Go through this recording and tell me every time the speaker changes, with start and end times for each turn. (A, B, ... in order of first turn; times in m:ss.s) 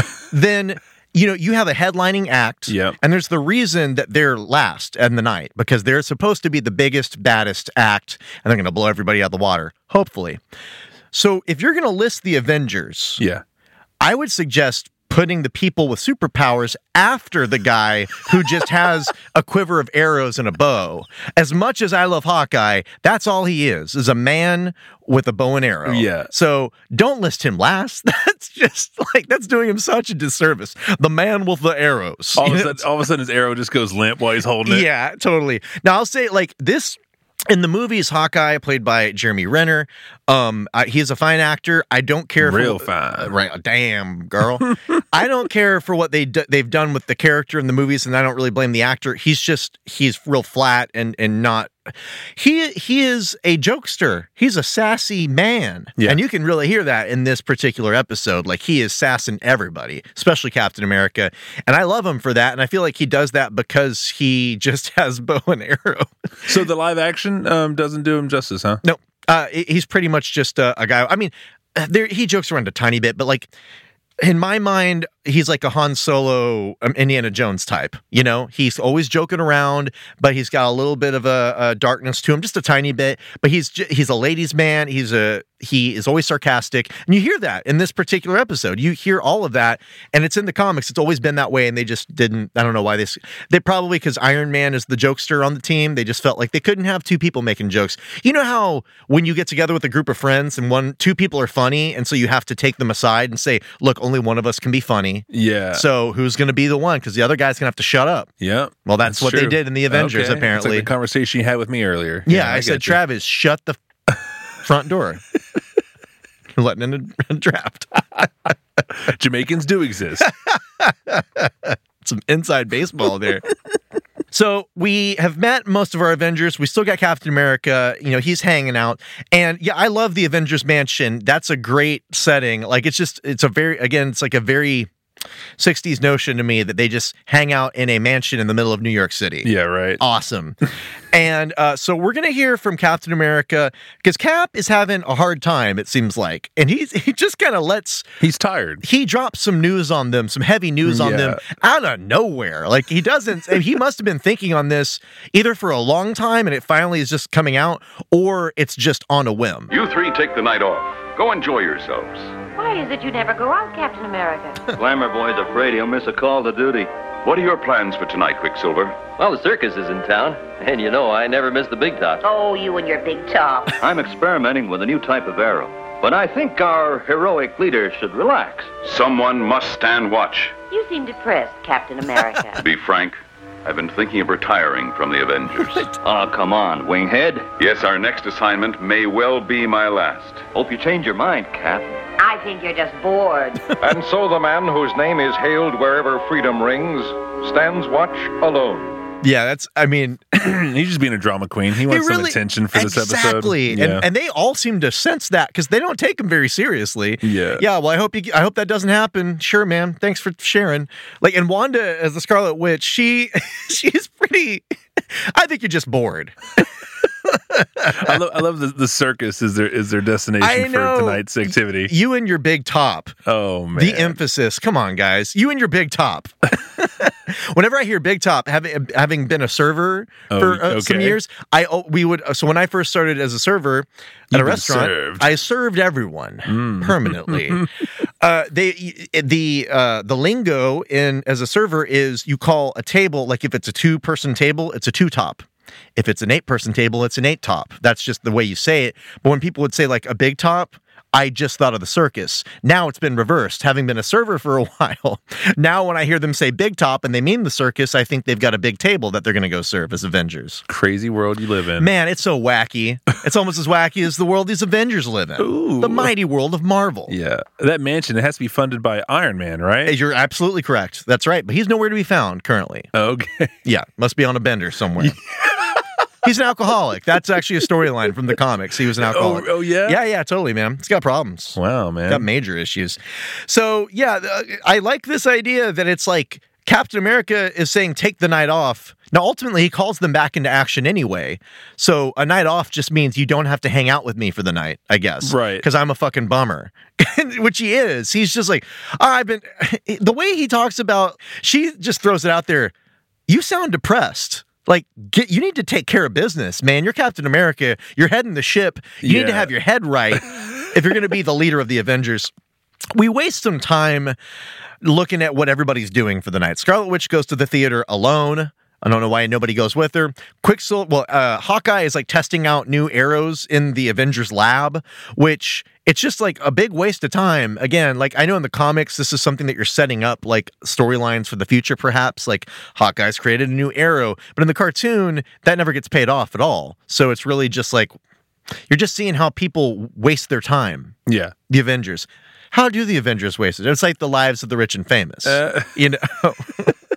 0:00.3-0:10.4 A
0:02.7-0:03.0 B
0:11.1-0:13.2 A
0:14.0-0:32.9 A
0:25.8-0:26.3 B
0:32.4-0:34.9 B
0:34.6-0:37.0 A
0:37.5-0:51.8 A
0:42.4-0:43.3 B
0:52.4-1:06.1 A
1:06.4-1:08.8 B
1:08.8-1:13.5 A
1:14.2-1:48.3 A
1:45.3-1:45.8 B
1:48.4-1:53.0 B
1:48.8-1:50.9 A
1:52.2-1:53.8 A
1:54.6-1:55.2 A
1:56.5-1:58.0 A
1:59.0-2:00.3 B
2:00.2-2:03.5 A
2:04.3-2:14.9 A
2:15.6-2:20.6 A
2:19.4-2:20.0 B
2:21.1-2:28.0 A
2:28.2-2:28.8 B
2:28.8-2:39.7 A
2:30.8-2:31.4 B
2:39.7-2:42.3 C
2:42.6-2:44.6 D
2:44.8-2:46.9 E
2:47.2-2:49.0 C
2:49.2-2:52.2 E
2:52.2-2:53.8 D
2:53.8-2:58.8 E
2:58.8-3:00.5 C
3:00.7-3:02.6 D
3:02.6-3:05.9 C
3:06.0-3:07.5 E
3:07.6-3:10.5 C
3:10.5-3:11.9 E
3:12.2-3:13.6 D
3:13.8-3:18.9 F
3:19.2-3:20.4 A
3:20.4-3:24.0 B
3:21.8-3:36.7 A
3:27.2-3:27.6 B
3:37.2-3:38.2 A
3:37.9-3:41.9 B
3:40.4-3:43.2 A
3:43.3-3:44.2 B
3:43.7-3:57.7 A
3:50.3-3:51.2 B
3:54.3-3:55.3 B
3:56.5-3:57.6 B
3:58.2-4:20.6 A
4:20.7-4:21.9 B
4:21.8-4:27.1 A
4:25.4-4:26.1 B
4:27.1-4:30.0 B
4:29.8-4:32.9 A
4:32.9-4:33.5 B
4:33.6-4:35.2 A
4:35.0-4:35.8 B
4:36.2-5:02.7 A
4:39.0-4:40.0 B
4:41.6-4:42.3 B
4:55.2-4:55.6 B
5:03.3-5:12.3 A
5:09.0-5:09.5 B
5:12.9-5:14.2 A
5:14.8-5:38.0 A
5:38.7-5:40.9 A
5:41.1-5:41.3 B
5:41.5-5:46.7 A
5:45.2-5:45.8 B